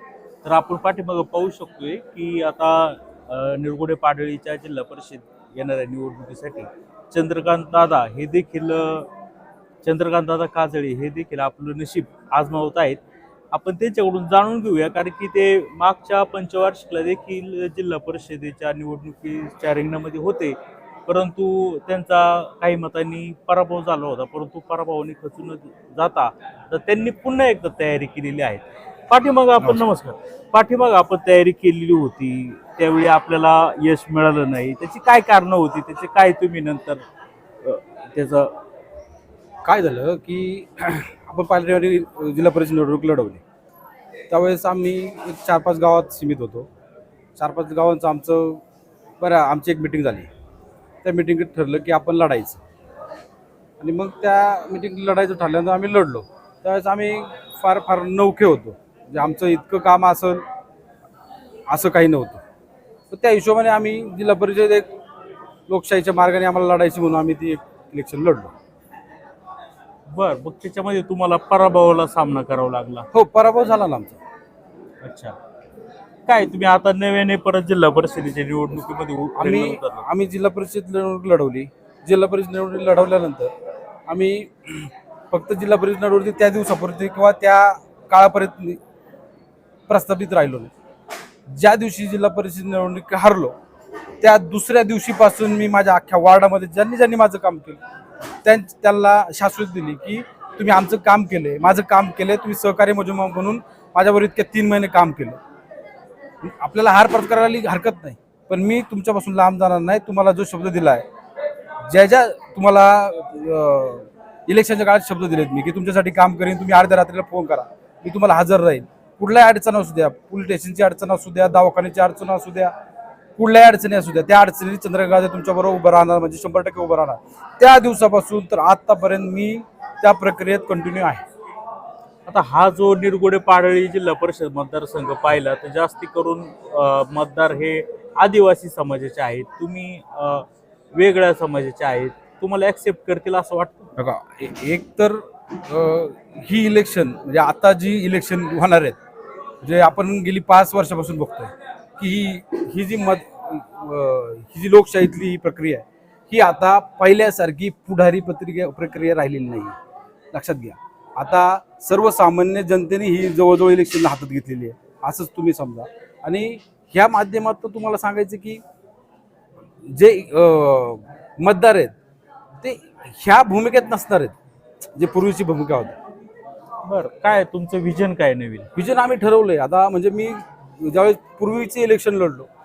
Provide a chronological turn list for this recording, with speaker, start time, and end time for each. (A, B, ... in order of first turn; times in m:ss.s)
0:00.4-0:09.1 A
0:09.8-0:13.0 A
0:13.5-0:37.0 A
0:37.6-0:38.6 A
0:39.6-0:43.4 B
0:44.3-0:46.7 B
0:47.4-0:48.6 B
0:49.2-0:50.3 B
0:51.0-0:52.6 B
0:53.8-1:00.4 B
1:01.7-1:02.4 B
1:03.1-1:04.9 B
1:05.7-1:08.5 B
1:10.1-1:13.0 A
1:13.1-1:14.2 B
1:15.0-1:15.4 A
1:16.3-1:20.1 A
1:19.4-1:23.5 B
1:24.1-1:28.8 B
1:29.9-1:30.7 B
1:31.5-1:33.5 B
1:34.2-1:37.8 B
1:38.4-1:45.4 B
1:46.4-1:51.0 B
1:51.9-2:02.7 B
2:03.4-2:11.2 B
2:12.3-2:23.9 A
2:24.0-2:29.0 B
2:29.6-2:39.8 B
2:40.3-2:48.6 B
2:49.8-2:52.0 B
2:52.6-2:54.4 B
2:54.9-2:56.0 B
2:56.8-2:58.7 A
2:58.7-3:02.5 B